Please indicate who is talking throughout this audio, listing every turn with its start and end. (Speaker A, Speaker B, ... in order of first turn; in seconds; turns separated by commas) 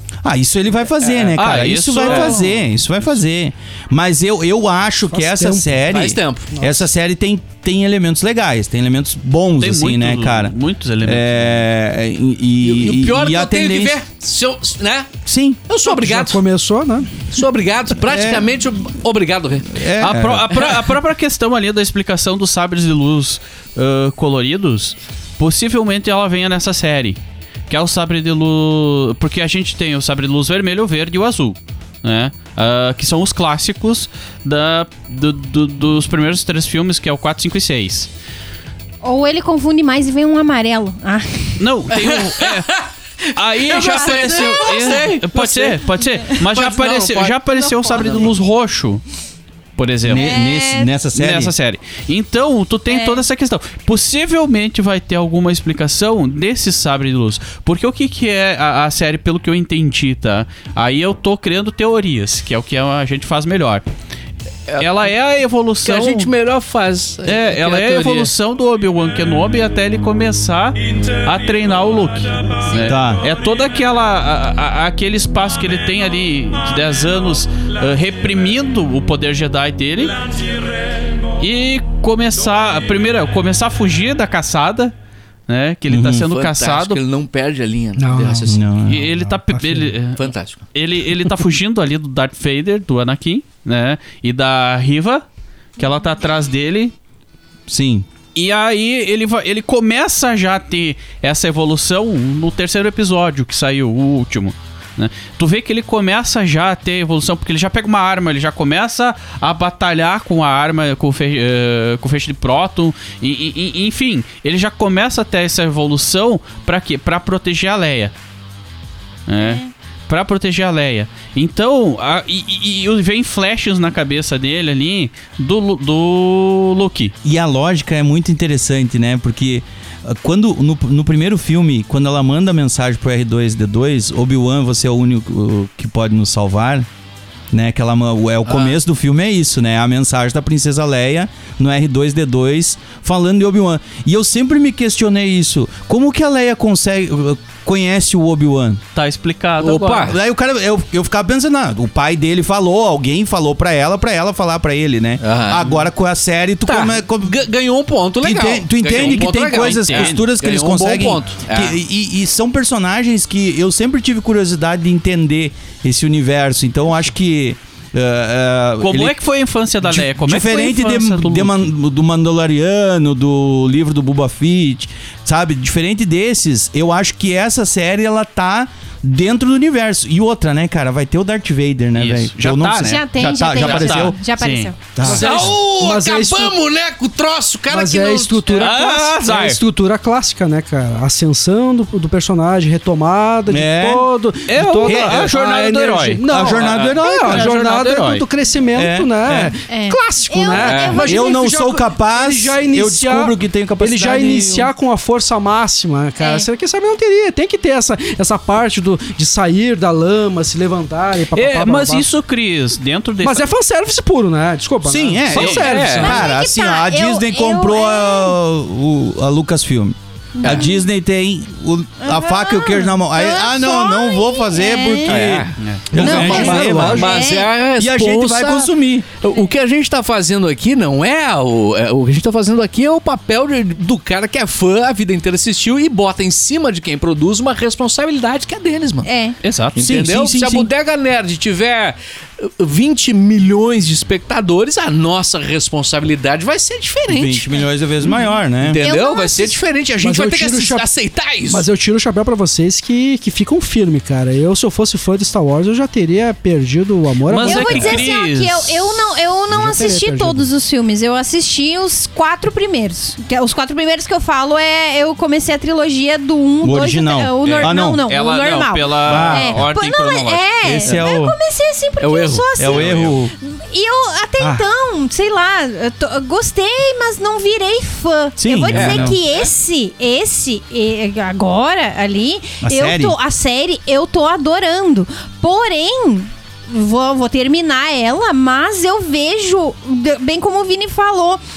Speaker A: 0.2-14.0, Speaker B: 1.3-2.6, Speaker C: 2.0-2.4, Speaker D: 5.1-5.8, Speaker C: 5.9-6.5, Speaker D: 6.5-6.8, Speaker B: 9.6-11.6, Speaker C: 12.6-15.2, Speaker A: 15.2-15.6, Speaker C: 15.7-16.4, Speaker D: 15.8-17.3, Speaker C: 17.3-19.8, Speaker A: 18.1-18.4, Speaker A: 19.7-20.5, Speaker B: 20.0-38.1, Speaker E: 39.0-41.6, Speaker B: 41.6-42.7, Speaker C: 41.9-47.4, Speaker B: 43.3-49.0, Speaker E: 43.8-45.0, Speaker E: 47.6-48.1, Speaker C: 47.9-48.3, Speaker B: 49.8-50.3, Speaker A: 50.0-51.5, Speaker E: 50.1-50.9, Speaker B: 51.1-63.8, Speaker E: 52.9-53.2, Speaker B: 64.8-66.3, Speaker C: 65.8-68.3, Speaker B: 67.2-80.2, Speaker A: 72.8-73.2, Speaker B: 81.4-84.9, Speaker B: 85.5-87.0, Speaker A: 85.9-86.3, Speaker C: 86.2-88.6, Speaker D: 88.0-88.6, Speaker A: 88.4-89.4, Speaker B: 88.8-95.2, Speaker C: 90.1-90.6, Speaker B: 95.8-96.9, Speaker A: 97.7-98.1, Speaker B: 98.3-118.1, Speaker B: 119.3-127.1, Speaker E: 119.4-119.7, Speaker A: 127.2-136.9, Speaker A: 137.5-148.8, Speaker C: 138.4-138.8, Speaker B: 148.9-150.1, Speaker C: 149.6-150.2, Speaker A: 150.1-157.4, Speaker C: 155.2-155.7, Speaker C: 156.7-161.8, Speaker A: 158.2-169.2, Speaker B: 158.9-160.2, Speaker B: 168.8-171.7, Speaker A: 169.8-184.2, Speaker B: 181.9-184.7, Speaker E: 182.8-184.8, Speaker A: 184.9-185.6, Speaker D: 185.0-186.6, Speaker C: 185.0-188.7, Speaker D: 187.7-212.1, Speaker B: 188.5-189.6, Speaker A: 193.5-194.1, Speaker B: 194.5-198.2, Speaker A: 194.8-195.3, Speaker A: 196.2-197.5, Speaker A: 198.7-199.5, Speaker E: 199.7-201.5, Speaker C: 200.5-201.0, Speaker A: 200.9-204.7, Speaker E: 206.2-206.5, Speaker B: 211.3-213.5, Speaker D: 213.2-216.2, Speaker A: 214.8-229.1, Speaker B: 215.3-215.6, Speaker C: 215.3-216.1, Speaker E: 215.9-218.4, Speaker E: 220.3-220.8, Speaker E: 222.0-225.2, Speaker C: 225.1-239.1, Speaker B: 225.6-225.9, Speaker E: 225.9-227.5, Speaker E: 239.0-239.3, Speaker B: 239.4-239.8, Speaker C: 239.8-247.5, Speaker A: 239.8-240.7, Speaker A: 247.1-248.8, Speaker C: 248.6-251.7, Speaker E: 248.8-249.6, Speaker D: 250.0-250.8, Speaker D: 251.4-258.1, Speaker B: 257.3-258.9, Speaker E: 257.4-272.9, Speaker D: 259.5-260.5, Speaker A: 266.6-268.0, Speaker B: 267.4-270.4, Speaker A: 269.0-269.7, Speaker A: 270.6-271.4, Speaker C: 272.0-272.5, Speaker A: 272.6-273.3, Speaker B: 272.7-273.2, Speaker E: 273.4-291.4, Speaker A: 278.4-279.2, Speaker C: 278.7-279.2, Speaker A: 282.6-283.1